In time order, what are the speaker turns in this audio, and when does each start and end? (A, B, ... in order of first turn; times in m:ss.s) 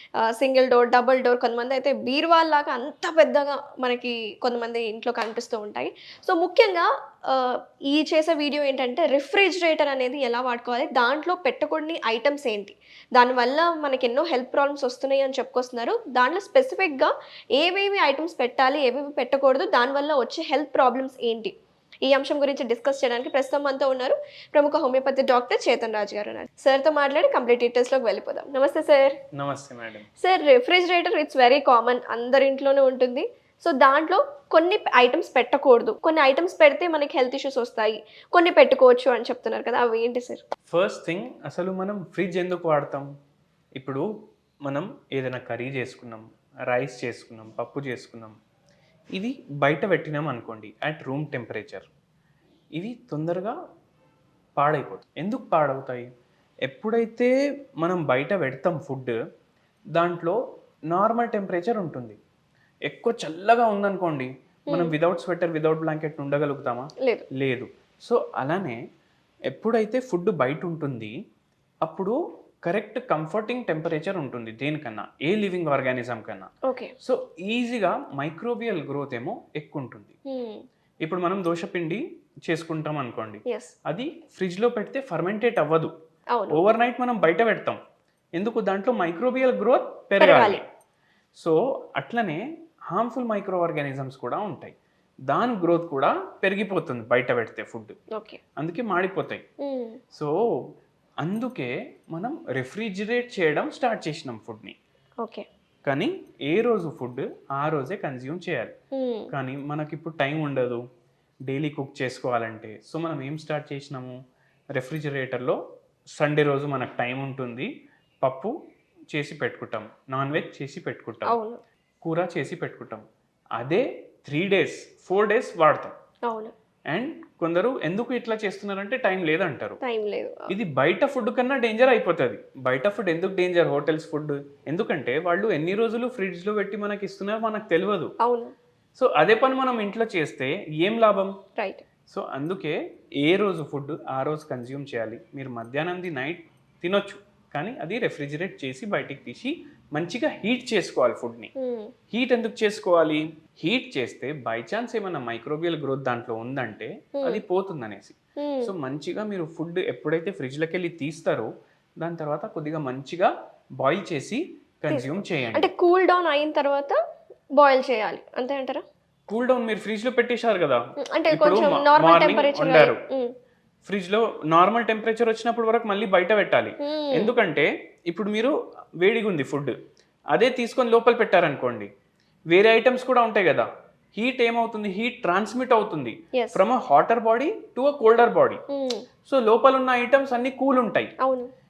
0:00.2-0:21.5 A
0:22.0-0:29.2 A
0:29.3-0:30.0 B
0:30.2-0:40.4 A
0:40.7-0:43.1 B
0:43.8-0:44.0 B
0:44.6-0:48.4 B
0:49.1-0:51.9 B
0:52.8-0:53.6 B
0:54.6-0:56.1 B
0:56.6-0:59.2 B
0:59.9-1:00.4 B
1:00.9-1:02.2 B
1:02.9-1:08.8 B
1:09.5-1:11.1 B
1:11.8-1:12.1 B
1:12.6-1:16.5 B
1:16.7-1:16.9 A
1:17.0-1:20.1 B
1:20.3-1:20.6 A
1:21.0-1:25.9 B
1:23.5-1:23.7 A
1:26.3-1:26.6 A
1:26.5-1:27.8 B
1:28.4-1:30.6 B
1:30.2-1:30.6 A
1:31.4-1:34.7 B
1:35.3-1:37.9 B
1:38.1-1:38.4 A
1:38.6-1:39.4 B
1:39.6-1:40.0 A
1:41.2-1:44.8 B
1:45.8-1:48.7 B
1:48.9-1:49.3 A
1:49.3-1:50.8 B
1:51.5-1:54.2 B
1:54.7-1:55.6 B
1:56.2-1:57.7 B
1:58.2-1:58.5 B
1:59.1-2:01.4 B
2:01.2-2:01.6 A
2:02.0-2:03.0 B
2:03.6-2:05.9 B
2:06.3-2:06.5 A
2:06.9-2:09.8 B
2:09.8-2:10.5 A
2:10.5-2:18.1 B
2:18.2-2:18.5 A
2:19.0-2:21.3 B
2:21.6-2:21.8 A
2:22.1-2:31.5 B
2:31.6-2:31.9 A
2:32.1-2:45.7 B
2:38.4-2:38.7 A
2:44.9-2:47.0 A
2:47.6-2:48.8 A
2:49.3-2:50.8 B
2:51.0-2:53.3 A
2:51.3-2:53.0 B
2:53.8-2:59.8 B
2:56.8-2:57.3 A
3:00.3-3:01.9 B
3:02.5-3:08.6 B
3:06.3-3:06.6 A
3:08.7-3:09.0 A
3:09.3-3:11.1 B
3:11.2-3:11.5 A